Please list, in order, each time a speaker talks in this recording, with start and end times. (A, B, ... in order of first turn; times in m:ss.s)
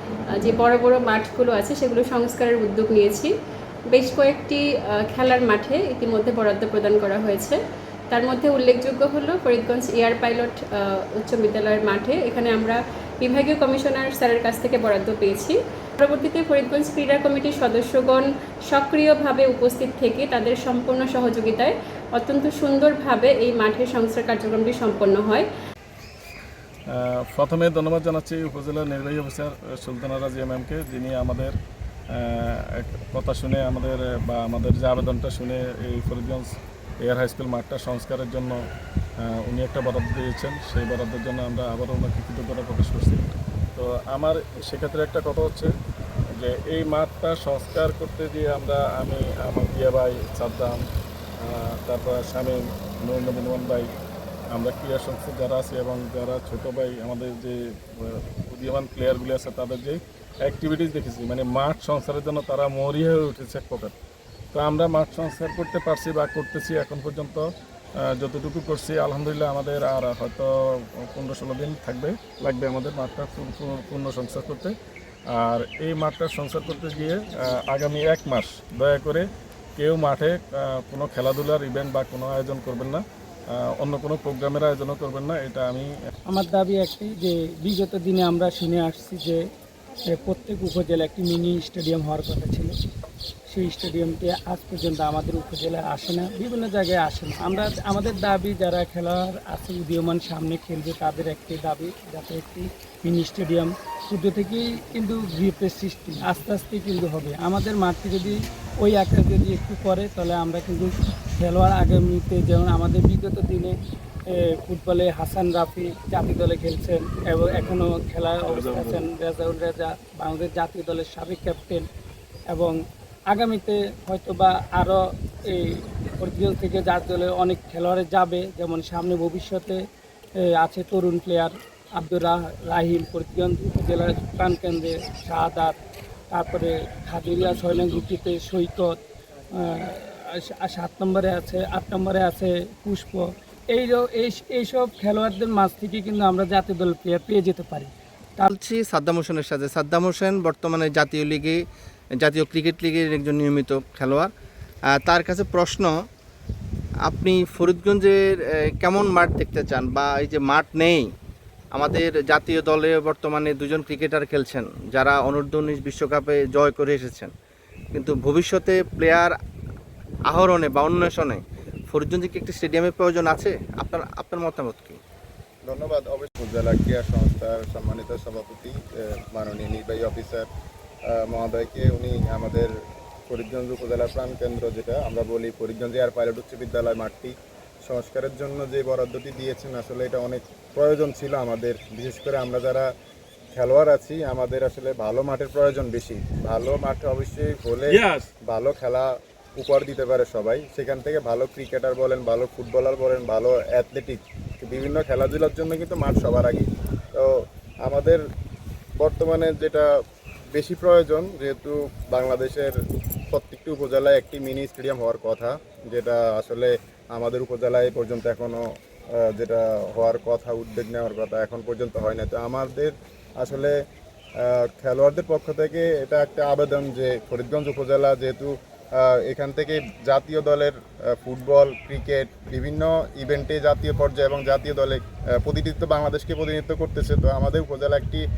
0:00.4-0:03.3 A
0:03.9-0:07.6 A
0:08.1-0:25.5 A
0:26.9-0:31.5 B
0:32.1-0:36.5 B
0:37.0-0:38.6 B
0:39.2-0:45.7 B
0:46.4-0:50.8 B
0:51.4-0:53.9 B
0:54.5-1:03.9 B
1:04.5-1:07.5 B
1:08.0-1:10.5 B
1:11.1-1:14.7 B
1:15.3-1:19.3 B
1:19.8-1:25.9 B
1:26.3-1:29.4 C
1:30.1-1:32.7 C
1:33.5-1:53.8 C
1:54.3-2:01.8 C
1:58.4-1:59.0 B
2:02.5-2:02.8 C
2:03.3-2:09.8 C
2:10.4-2:15.8 C
2:16.3-2:18.9 C
2:19.6-2:28.5 C
2:28.5-2:31.6 D
2:32.2-2:34.3 D
2:35.0-2:35.9 D
2:37.1-2:38.2 D
2:38.8-2:41.0 D
2:41.8-2:47.3 D
2:48.0-2:49.3 D
2:50.3-2:51.4 D
2:51.9-2:55.0 D
2:55.7-3:00.4 E
3:01.1-3:02.7 E
3:03.3-3:07.3 E
3:07.8-3:12.9 E
3:13.6-3:28.2 E
3:17.9-3:18.3 B
3:29.0-3:29.9 E
3:30.6-3:32.8 E
3:33.3-3:38.6 E
3:39.2-3:43.7 E
3:44.4-3:58.2 E